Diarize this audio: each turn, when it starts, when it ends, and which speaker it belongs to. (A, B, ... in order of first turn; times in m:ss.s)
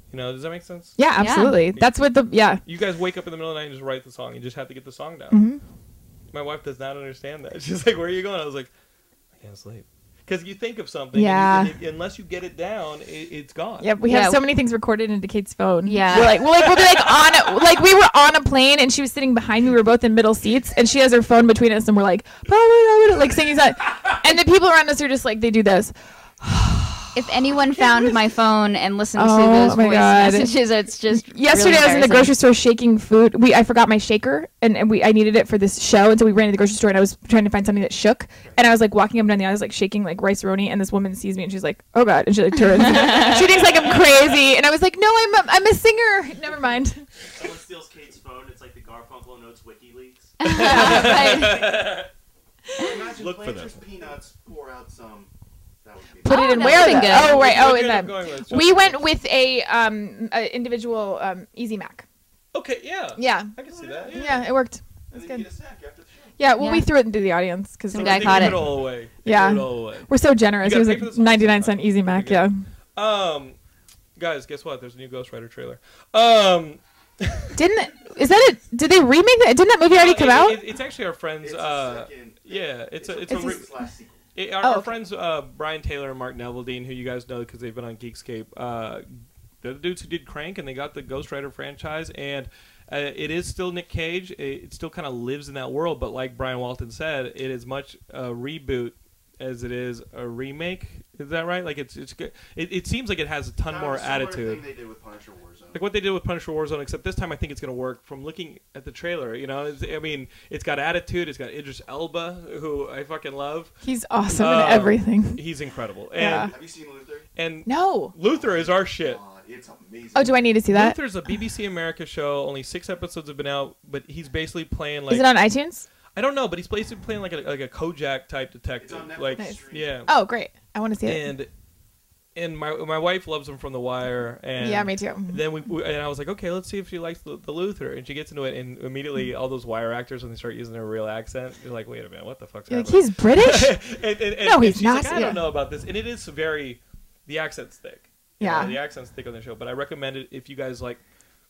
0:00.1-0:01.0 A
0:01.0-0:02.6 B
0:01.2-0:01.6 C
0:02.6-0:05.4 A
0:05.3-0:05.6 B
0:06.3-0:08.7 A
0:09.4-0:13.9 A
0:11.1-0:11.7 B
0:13.8-0:27.2 B
0:14.1-0:14.4 C
0:15.8-0:16.4 C
0:16.4-0:17.5 A
0:27.1-0:32.3 C
0:29.2-0:30.5 B
0:31.1-0:47.1 B
0:43.0-0:43.4 C
0:47.4-0:50.4 D
0:50.4-0:51.7 C
0:50.4-0:52.1 A
0:50.6-0:51.5 B
0:51.3-0:51.9 D
0:52.8-0:55.3 E
0:53.2-0:53.8 A
0:55.8-0:57.2 E
0:56.2-1:02.1 B
0:56.2-0:57.5 C
0:56.8-0:59.0 A
1:02.5-1:04.5 A
1:03.2-1:03.5 B
1:03.6-1:04.4 E
1:04.1-1:05.5 B
1:05.1-1:06.4 E
1:06.4-1:12.6 B
1:06.6-1:06.9 C
1:07.9-1:08.6 C
1:07.9-1:13.6 A
1:14.2-1:17.6 A
1:17.6-1:20.6 B
1:19.9-1:23.7 A
1:21.4-1:24.2 E
1:23.3-1:23.6 B
1:24.4-1:29.1 A
1:24.6-1:24.9 B
1:29.6-1:44.6 A
1:43.7-1:45.8 E
1:45.7-1:53.7 A
1:53.8-1:55.4 B
1:54.3-1:56.5 A
1:56.2-1:56.5 B
1:56.4-1:57.3 E
1:57.4-1:59.2 A
1:57.7-1:58.1 B
1:58.3-2:00.4 E
2:00.2-2:01.0 B
2:00.7-2:05.3 A
2:05.1-2:05.9 B
2:06.2-2:10.1 A
2:08.8-2:09.9 E
2:09.4-2:11.3 B
2:11.0-2:11.5 A
2:12.4-2:31.0 A
2:14.6-2:15.4 B
2:22.7-2:23.8 B
2:24.4-2:25.4 B
2:28.4-2:28.8 B